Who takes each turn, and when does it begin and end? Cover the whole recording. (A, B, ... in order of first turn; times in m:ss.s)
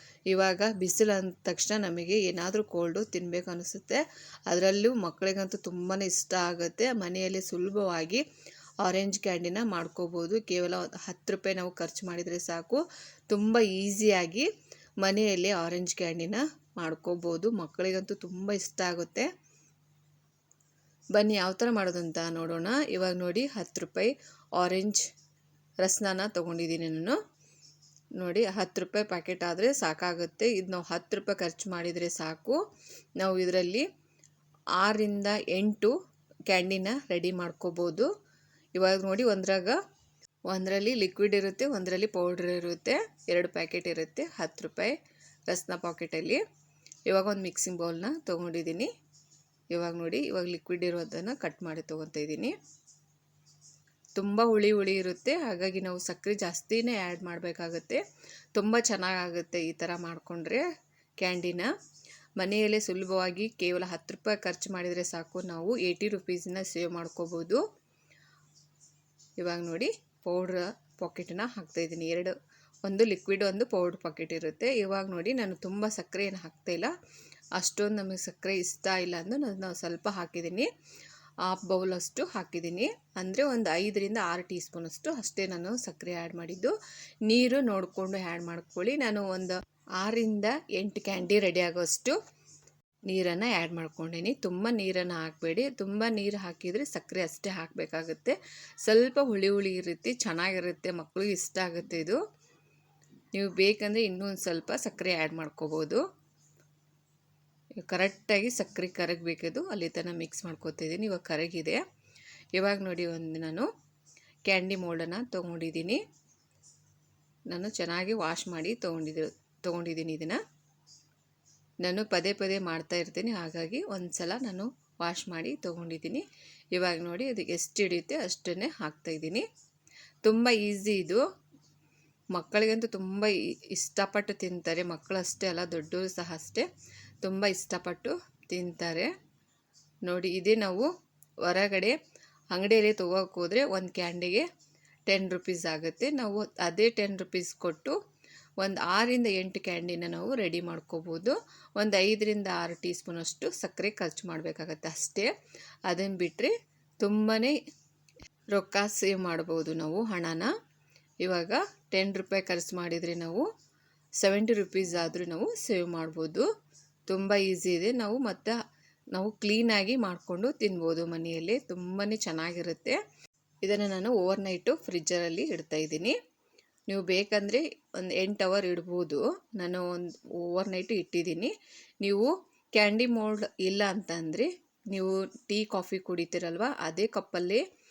0:00.3-0:08.2 A
0:08.8-0:14.5 A
0:15.0-0:19.3 A
0:21.2-0:25.0 A
0:25.8-0:27.2 A
0:28.2-0:32.6 A
0:33.2-0:33.9 A
0:34.8-0:35.9 A
0:36.5-0:38.1 A
0:38.8-0:39.8 A
0:40.5-0:44.9 A
0:45.5-0:46.4 A
0:47.1-0:48.9 A
0:49.7-0:52.6 A
0:54.2-0:58.0 A
0:58.6-1:00.6 A
1:01.2-1:01.7 A
1:02.4-1:07.6 A
1:09.4-1:16.9 A
1:17.6-1:20.7 A
1:21.5-1:26.7 A
1:27.3-1:32.2 A
1:33.1-1:42.2 A
1:43.3-1:46.0 A
1:47.8-1:51.8 A
1:52.6-1:53.7 A
1:54.5-1:56.0 A
1:57.5-2:00.4 A
2:01.8-2:09.5 A
2:10.2-2:11.2 A
2:12.3-2:16.7 A
2:17.2-2:19.1 A
2:20.1-2:20.9 A
2:21.5-2:22.0 A
2:22.5-2:24.5 A
2:25.1-2:28.0 A
2:28.6-2:35.3 A
2:35.9-2:37.6 A
2:38.5-2:40.5 A
2:41.2-2:43.5 A
2:44.2-2:46.5 A
2:47.1-2:48.6 A
2:49.1-2:53.0 A
2:53.6-2:56.2 A
2:56.9-3:07.6 A